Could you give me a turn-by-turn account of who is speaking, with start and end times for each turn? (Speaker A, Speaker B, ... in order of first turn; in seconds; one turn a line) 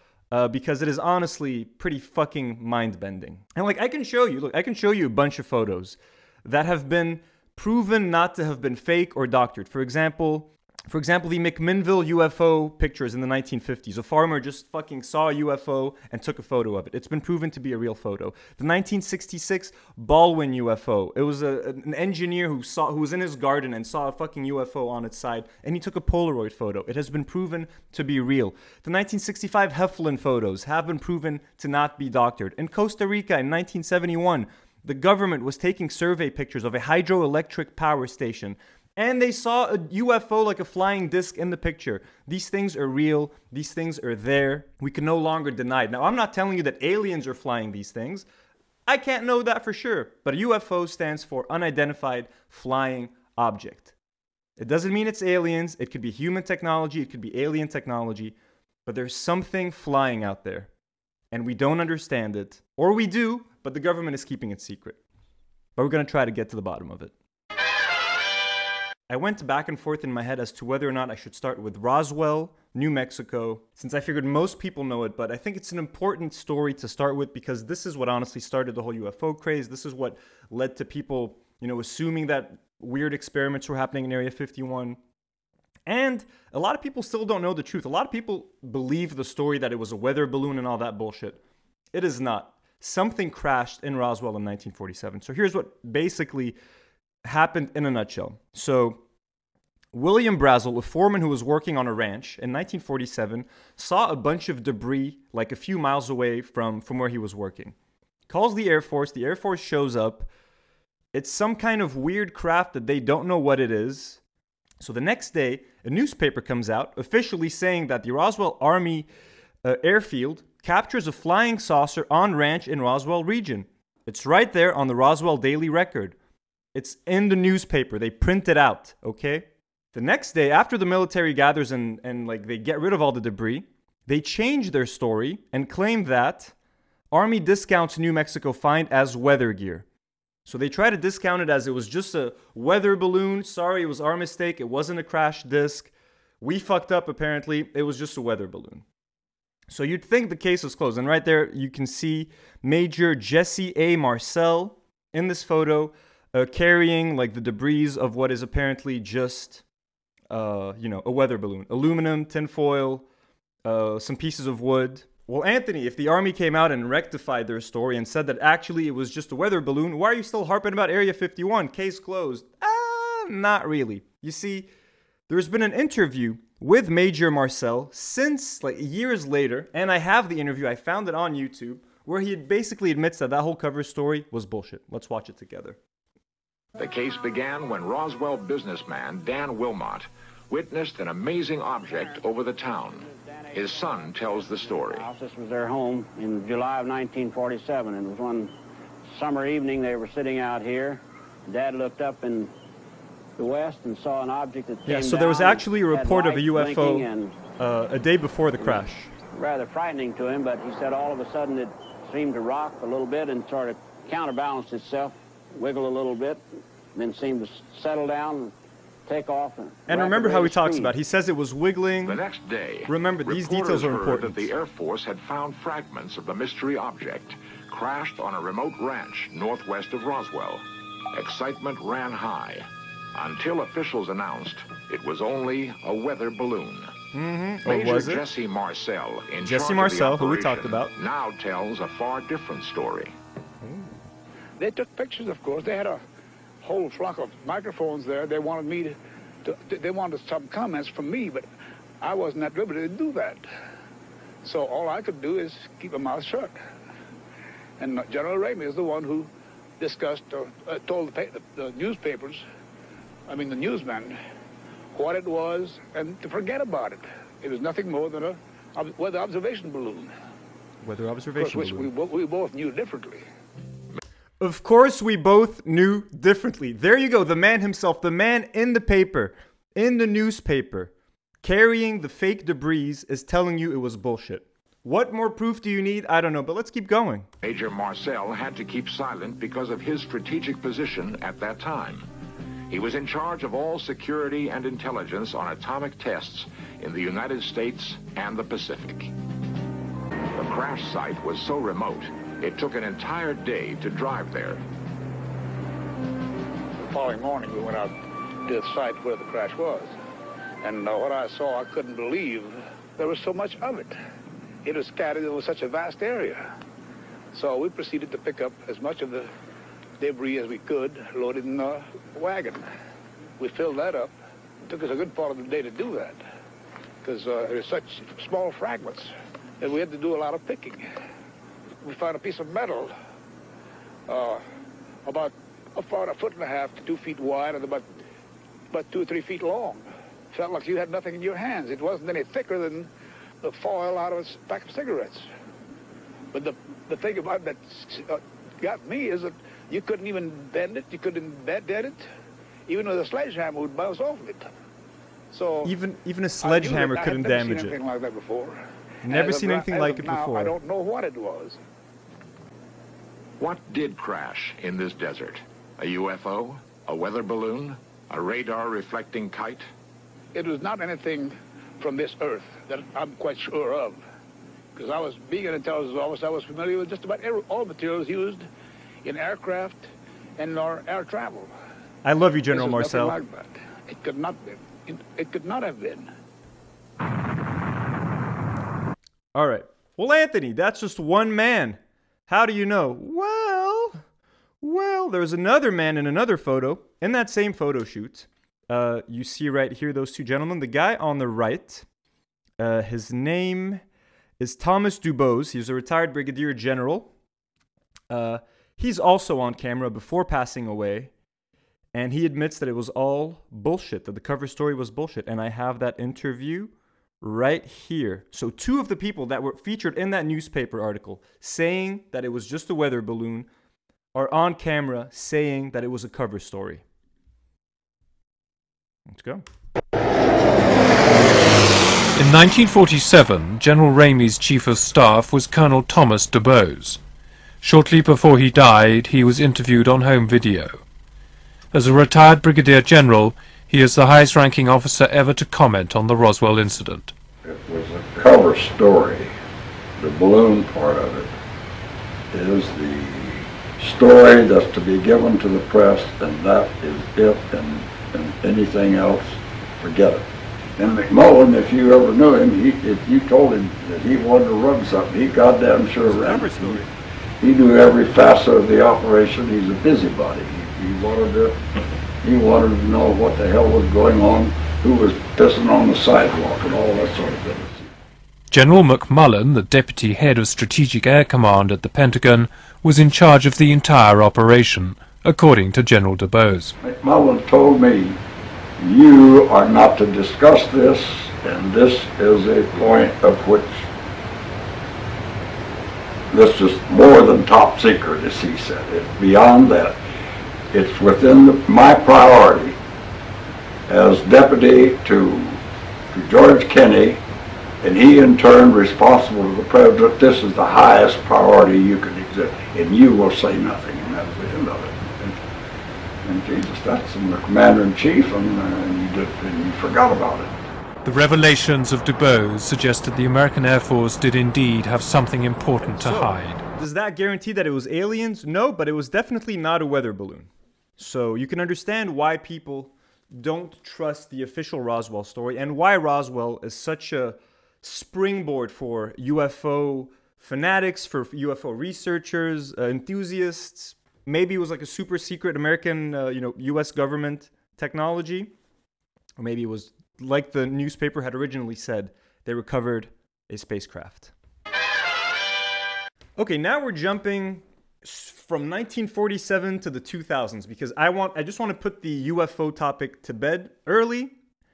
Speaker A: 0.3-48.3
Speaker A: 48.9-53.9
Speaker A: 54.6-60.7
Speaker A: 61.3-65.0
Speaker A: 65.8-67.1
Speaker A: 69.1-85.0
Speaker A: 85.9-91.4
Speaker A: 91.9-96.6
Speaker A: 97.2-99.0
Speaker A: 99.9-107.8
Speaker A: 108.3-110.3
Speaker A: 111.1-114.2
Speaker A: 114.8-119.1
Speaker A: 119.6-126.2
Speaker A: 126.7-136.6
Speaker A: 137.1-139.9
Speaker A: 140.5-148.8
Speaker A: 149.7-159.6
Speaker A: 160.3-163.1
Speaker A: 163.7-174.7
Speaker A: 175.3-185.8
Speaker B: 186.8-195.1
Speaker C: 193.6-198.5
Speaker C: 199.1-202.5
Speaker C: 203.4-207.4
Speaker A: 204.9-207.1
Speaker A: 207.6-209.1
Speaker C: 208.6-216.4
Speaker C: 216.9-218.5
Speaker C: 219.1-220.9
Speaker A: 219.9-222.2
Speaker B: 222.1-236.9
Speaker A: 222.9-224.5
Speaker A: 237.1-238.2
Speaker B: 237.7-243.2
Speaker A: 239.4-240.9
Speaker A: 243.6-243.9
Speaker D: 244.6-246.0
Speaker D: 246.6-251.5
Speaker D: 252.0-253.4
Speaker D: 254.4-256.6
Speaker D: 257.8-262.4
Speaker D: 263.3-264.2
Speaker D: 264.9-270.1
Speaker A: 270.8-271.9
Speaker D: 271.4-273.2
Speaker A: 274.4-280.9
Speaker A: 281.4-287.3
Speaker B: 287.4-292.1
Speaker B: 292.7-299.1
Speaker B: 300.4-304.6
Speaker D: 306.8-309.9
Speaker D: 310.6-314.0
Speaker D: 314.6-316.5
Speaker D: 317.3-319.3
Speaker D: 320.0-322.7
Speaker D: 323.4-324.1
Speaker D: 324.7-326.2
Speaker D: 327.0-330.9
Speaker D: 331.8-332.9
Speaker D: 334.1-334.4
Speaker D: 335.1-337.9
Speaker D: 338.7-342.9
Speaker D: 343.4-345.3
Speaker D: 346.3-352.1
Speaker D: 352.7-354.5
Speaker D: 355.3-355.7
Speaker A: 355.6-357.8
Speaker D: 356.4-361.6
Speaker A: 359.0-360.6
Speaker B: 363.4-369.6
Speaker D: 370.4-374.0
Speaker D: 374.8-378.5
Speaker D: 379.0-381.5
Speaker A: 382.0-383.2
Speaker D: 382.5-386.1
Speaker A: 389.4-394.0
Speaker A: 394.6-401.9
Speaker A: 402.6-403.8
Speaker A: 404.4-407.1
Speaker A: 408.1-411.1
Speaker A: 411.9-423.5
Speaker A: 424.1-426.8
Speaker A: 429.1-429.4
Speaker E: 432.2-437.0
Speaker E: 437.6-440.8
Speaker E: 441.7-447.1
Speaker F: 447.4-449.3
Speaker F: 450.0-451.3
Speaker F: 452.3-466.8
Speaker A: 466.0-466.9
Speaker F: 467.4-471.6
Speaker F: 472.2-477.9
Speaker E: 478.5-486.8
Speaker F: 486.8-488.2
Speaker F: 488.8-493.9
Speaker F: 496.3-500.0
Speaker F: 500.7-502.8
Speaker F: 503.9-507.2
Speaker F: 507.8-515.4
Speaker F: 516.2-520.5
Speaker E: 521.0-526.6
Speaker A: 525.8-548.5
Speaker A: 549.4-554.3
Speaker A: 556.4-564.4